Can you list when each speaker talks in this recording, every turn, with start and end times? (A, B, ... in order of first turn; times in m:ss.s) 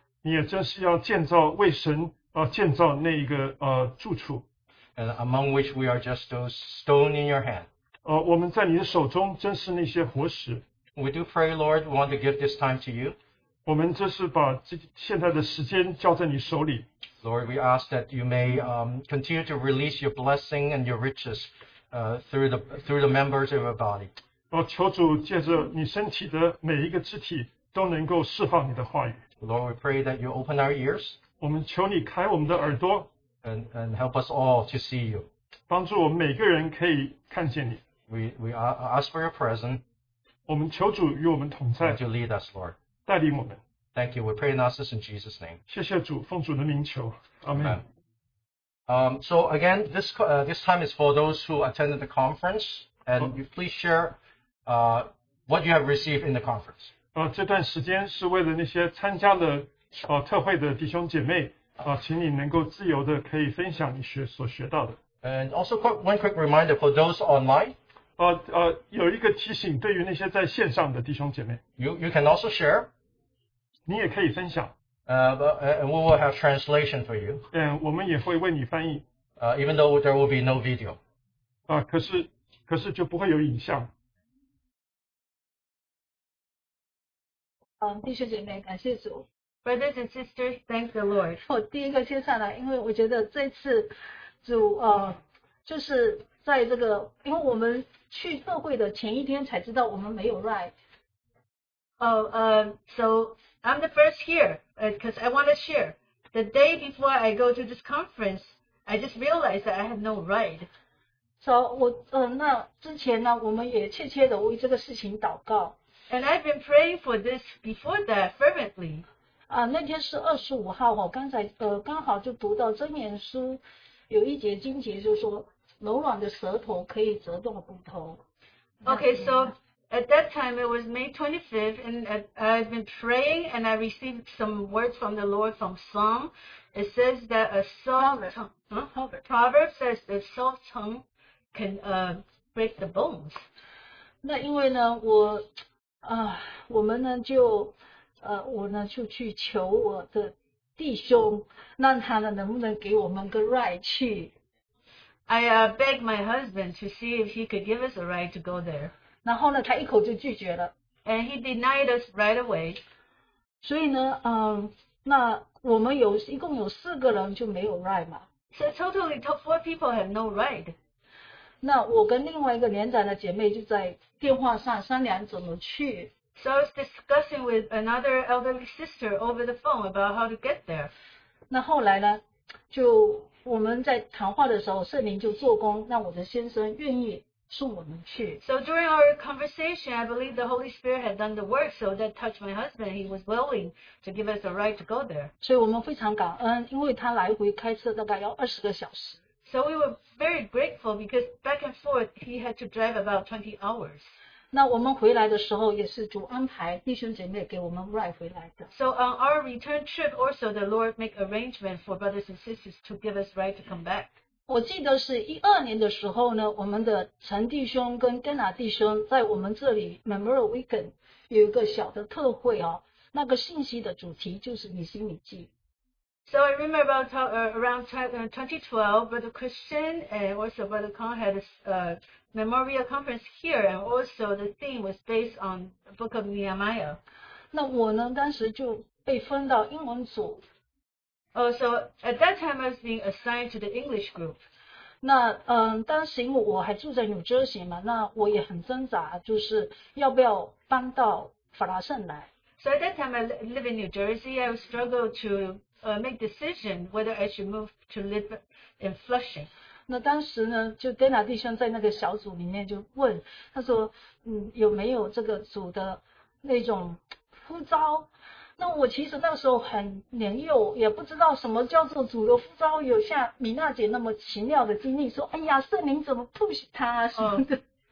0:00.2-0:04.4 A
0:05.0-0:07.7 B
0:08.0-0:10.6 A
0:11.0-0:13.2 B
0:13.6-0:16.8 A
0:17.2-0:24.1 B
0:24.5-0:29.2 A
0:29.4-0:31.2 B
0:31.4-0:33.1 A
0:33.4-0:35.3 B
0:35.7-0:37.8 A
0:38.1-0:39.8 B
0:40.5-0:42.0 A
0:41.8-0:42.7 B
0:43.0-0:43.6 A
0:43.9-0:45.6 B
0:45.7-0:47.8 A
0:47.6-0:47.8 B
0:48.9-0:56.9 B
0:57.1-1:05.0 A
1:05.2-1:07.8 B
1:08.2-1:11.6 A
1:11.8-1:12.9 B
1:13.8-1:14.7 A
1:15.1-1:17.4 B
1:17.5-1:19.0 A
1:19.4-1:21.0 B
1:21.7-1:23.9 A
1:27.8-1:29.2 C
1:29.6-1:31.4 D
1:31.4-1:40.7 C
1:42.0-1:50.7 D
1:51.4-1:55.8 C
1:56.1-1:59.0 D
1:59.5-2:08.2 C
2:08.8-2:23.4 D
2:08.8-2:09.5 C
2:18.0-2:18.3 C
2:18.9-2:19.2 C
2:24.2-2:25.5 C
2:26.0-2:34.3 C
2:35.3-2:38.9 D
2:39.2-2:40.7 C
2:41.0-2:42.8 D
2:43.6-2:48.2 C
2:48.5-2:50.7 D
2:51.6-2:56.1 C
2:56.4-3:00.9 D
3:01.5-3:08.4 C
3:08.4-3:15.3 D
3:15.4-3:19.2 C
3:19.4-3:24.1 D
3:24.5-3:28.7 C
3:28.7-3:34.1 D
3:34.5-3:45.5 C
3:46.2-3:57.0 D
3:57.5-4:00.4 C
4:01.3-4:04.4 D
4:05.0-4:12.3 C
4:12.6-4:19.5 D
4:19.9-4:37.6 C
4:37.2-4:37.4 D